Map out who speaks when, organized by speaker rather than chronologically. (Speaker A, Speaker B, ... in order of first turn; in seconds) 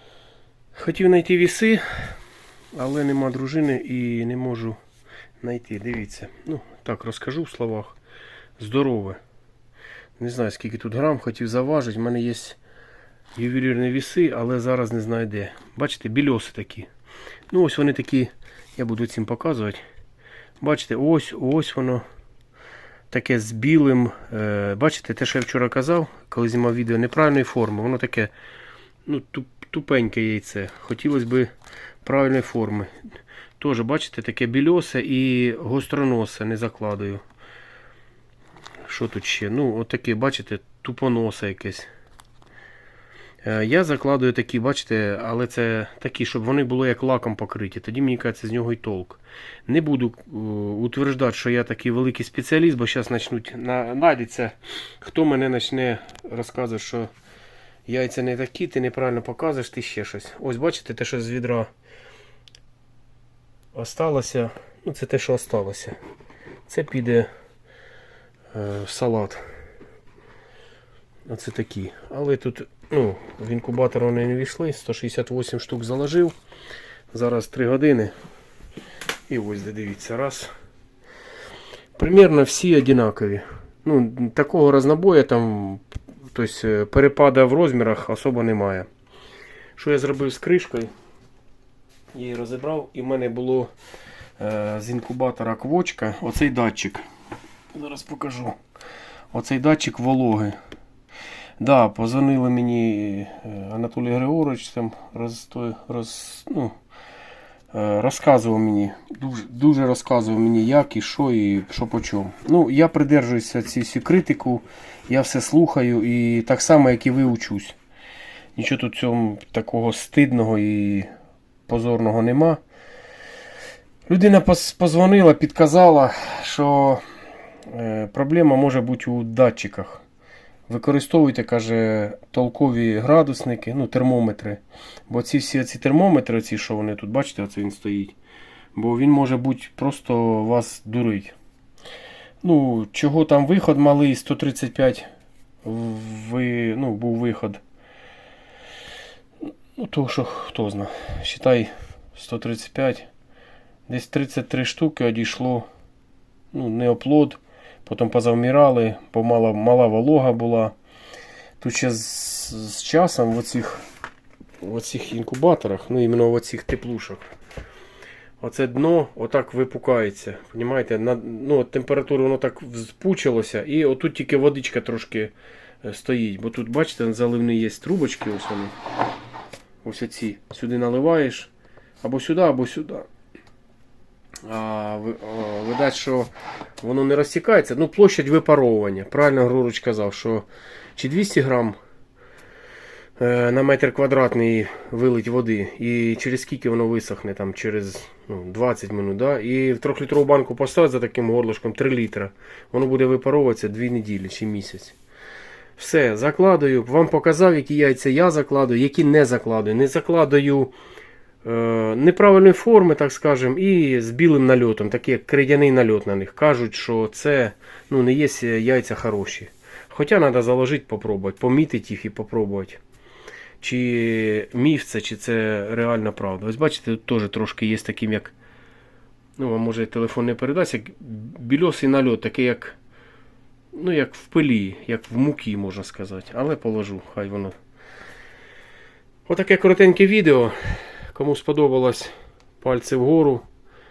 Speaker A: 0.7-2.1, 2.7-4.8, 5.4-8.0, 8.6-9.2, 10.2-12.6, 13.3-16.9, 17.5-19.8, 20.6-22.0, 23.1-28.3, 29.1-31.5, 32.0-32.9, 33.6-37.2, 38.9-41.9, 43.4-57.1, 57.9-61.7, 63.7-66.0, 66.7-67.3, 68.5-69.4, 71.3-76.3, 77.1-78.1, 79.3-80.5, 82.0-88.9, 89.8-90.9, 92.1-93.7, 94.4-97.0, 97.7-98.6, 99.3-100.5, 101.6-106.8, 107.7-117.8, 118.5-121.1, 121.7-122.6, 124.1-127.0, 127.7-130.0, 130.7-138.1, 138.7-141.3, 142.4-145.1, 145.6-147.6, 149.8-153.1, 153.9-155.7, 156.5-160.7, 161.6-163.8, 164.6-167.3, 168.4-175.3, 175.8-178.7, 179.8-183.1, 184.4-191.8, 193.2-204.9, 205.8-210.7, 211.4-222.8, 223.6-228.3, 229.4-232.8, 233.7-237.6, 239.3-243.4